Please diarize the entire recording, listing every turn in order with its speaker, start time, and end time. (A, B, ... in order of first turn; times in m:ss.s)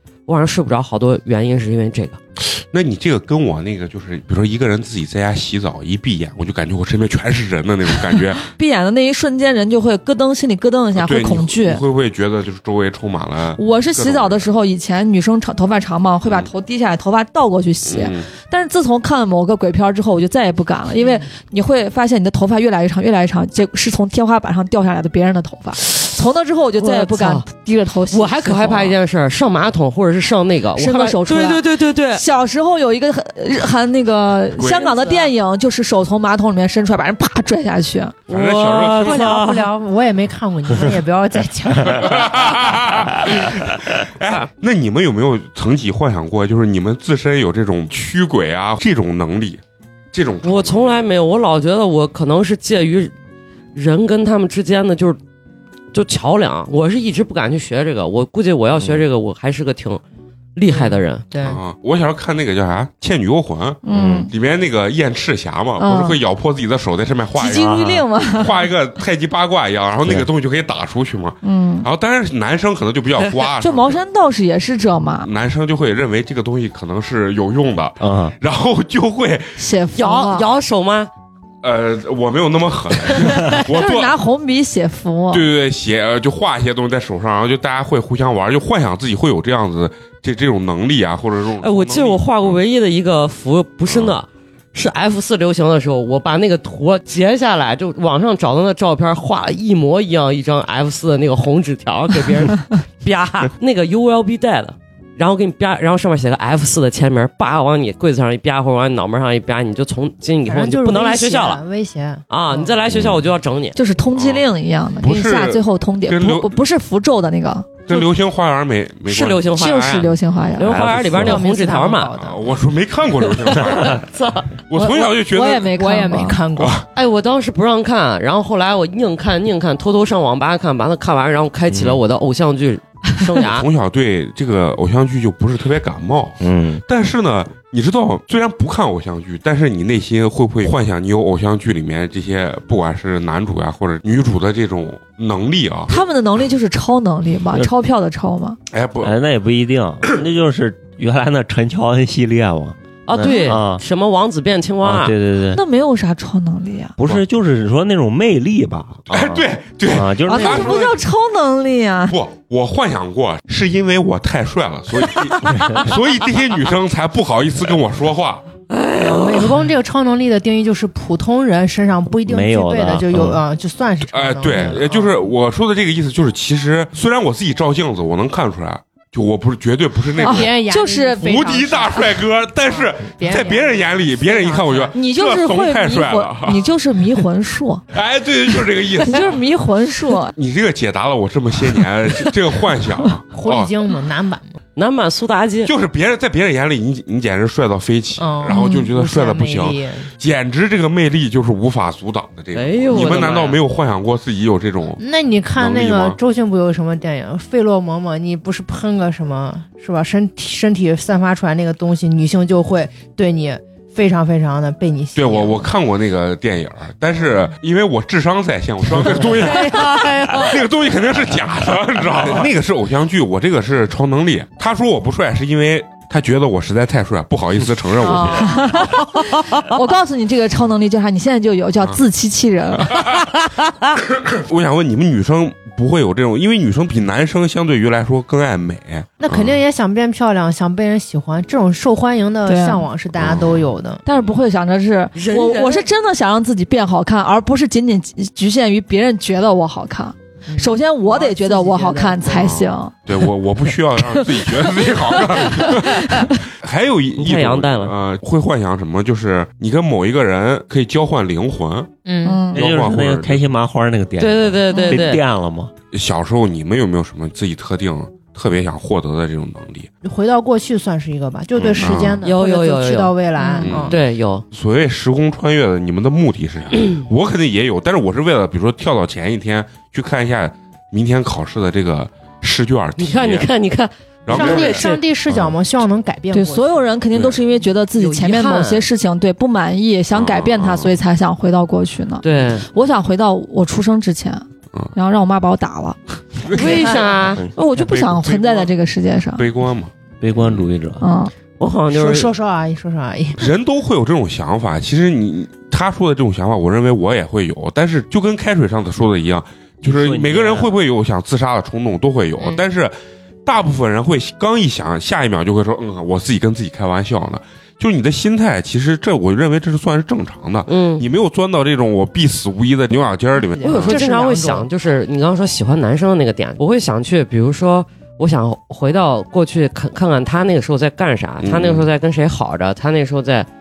0:00.3-0:02.2 A
0:02.4-0:08.4 B
0:08.5-0:11.8 C
0:11.0-0:14.5 B
0:13.6-0:29.0 C
0:17.9-0:18.3 B
0:26.8-0:27.5 A
0:28.1-0:32.2 A
0:30.8-0:38.2 C
0:34.6-0:35.0 B
0:34.7-0:35.3 A
0:38.3-0:39.7 A
0:38.3-0:39.3 B
0:39.0-0:42.8 D
0:41.9-0:49.6 B
0:50.1-0:51.0 B
0:50.4-0:53.1 A
0:53.8-0:55.2 A
0:55.9-1:00.0 A
1:00.6-1:01.2 A
1:00.7-1:01.6 D
1:01.4-1:14.0 B
1:03.8-1:04.3 C
1:03.9-1:04.3 E
1:05.8-1:06.2 C
1:07.4-1:08.6 C
1:07.6-1:08.0 E
1:11.4-1:11.9 C
1:13.6-1:15.3 C
1:15.2-1:19.7 B
1:18.0-1:18.4 E
1:19.6-1:20.5 C
1:20.0-1:21.1 A
1:21.6-1:24.2 B
1:23.5-1:25.5 C
1:25.3-1:32.6 B
1:31.6-1:51.6 A
1:33.9-1:34.1 B
1:50.5-1:52.8 D
1:52.3-1:53.8 A
1:52.9-1:53.2 E
1:53.8-1:57.7 C
1:54.1-1:54.5 B
1:55.0-1:56.6 B
1:57.9-1:59.5 B
1:59.1-2:02.1 A
1:59.5-2:00.8 C
2:00.6-2:01.4 E
2:01.1-2:02.4 D
2:02.2-2:04.0 B
2:03.3-2:04.5 A
2:04.7-2:05.8 B
2:04.7-2:06.4 C
2:05.6-2:06.8 D
2:06.6-2:06.9 B
2:07.0-2:13.7 A
2:11.7-2:12.0 E
2:13.5-2:26.0 B
2:16.4-2:16.8 E
2:25.9-2:28.6 C
2:28.7-2:29.2 B
2:29.0-2:33.8 E
2:33.1-2:35.1 A
2:33.2-2:33.6 C
2:34.8-2:35.6 E
2:35.5-2:37.0 C
2:37.0-2:40.8 E
2:39.1-2:41.0 B
2:40.3-2:42.2 C
2:42.1-2:48.5 B
2:48.7-2:49.6 A
2:49.0-2:55.1 D
2:52.2-2:53.4 E
2:54.1-3:00.6 B
3:00.2-3:01.4 C
3:00.2-3:05.0 D
3:01.2-3:06.7 B
3:04.9-3:07.8 C
3:07.9-3:09.4 B
3:09.0-3:10.3 C
3:10.3-3:13.7 B
3:13.3-3:14.6 D
3:14.8-3:15.7 A
3:15.6-3:25.0 B
3:18.2-3:20.1 D
3:18.5-3:18.9 C
3:22.5-3:23.6 A
3:25.0-3:35.7 D
3:25.5-3:26.2 B
3:35.2-3:48.8 B
3:39.1-3:40.6 D
3:48.1-3:48.4 D
3:48.1-3:53.1 C
3:52.8-3:53.2 B
3:54.1-3:59.6 B
3:59.2-4:04.0 D
4:02.4-4:02.9 C
4:03.2-4:03.7 B
4:04.0-4:12.9 C
4:05.2-4:05.9 A
4:10.5-4:12.6 D
4:12.4-4:21.9 B
4:15.3-4:16.4 C
4:17.2-4:17.9 A
4:22.0-4:22.5 D
4:22.2-4:22.6 C
4:22.5-4:25.7 E
4:22.6-4:23.4 B
4:24.2-4:25.2 A
4:24.7-4:25.0 C
4:25.9-4:29.9 B
4:30.0-4:34.0 D
4:31.6-4:32.2 B
4:32.2-4:34.4 A
4:33.4-4:33.7 C
4:33.6-4:34.0 B
4:34.5-4:43.5 B
4:43.0-4:45.0 A
4:44.3-4:45.6 B
4:44.3-4:46.9 D
4:46.3-4:56.0 C
4:47.1-4:47.4 B
4:48.0-4:48.9 A
4:50.1-4:51.0 B
4:52.2-4:52.7 A
4:56.4-4:56.9 B
4:56.5-4:57.4 A
4:56.6-4:57.2 D
4:57.6-4:59.5 C
4:57.7-4:58.7 B
4:59.4-5:00.7 B
5:00.2-5:01.0 E
5:01.0-5:01.3 C
5:01.6-5:02.3 A
5:01.9-5:03.5 D
5:03.4-5:24.0 B
5:09.8-5:10.7 E
5:20.7-5:21.1 A
5:23.4-5:24.7 D
5:23.6-5:33.5 A
5:31.4-5:31.9 B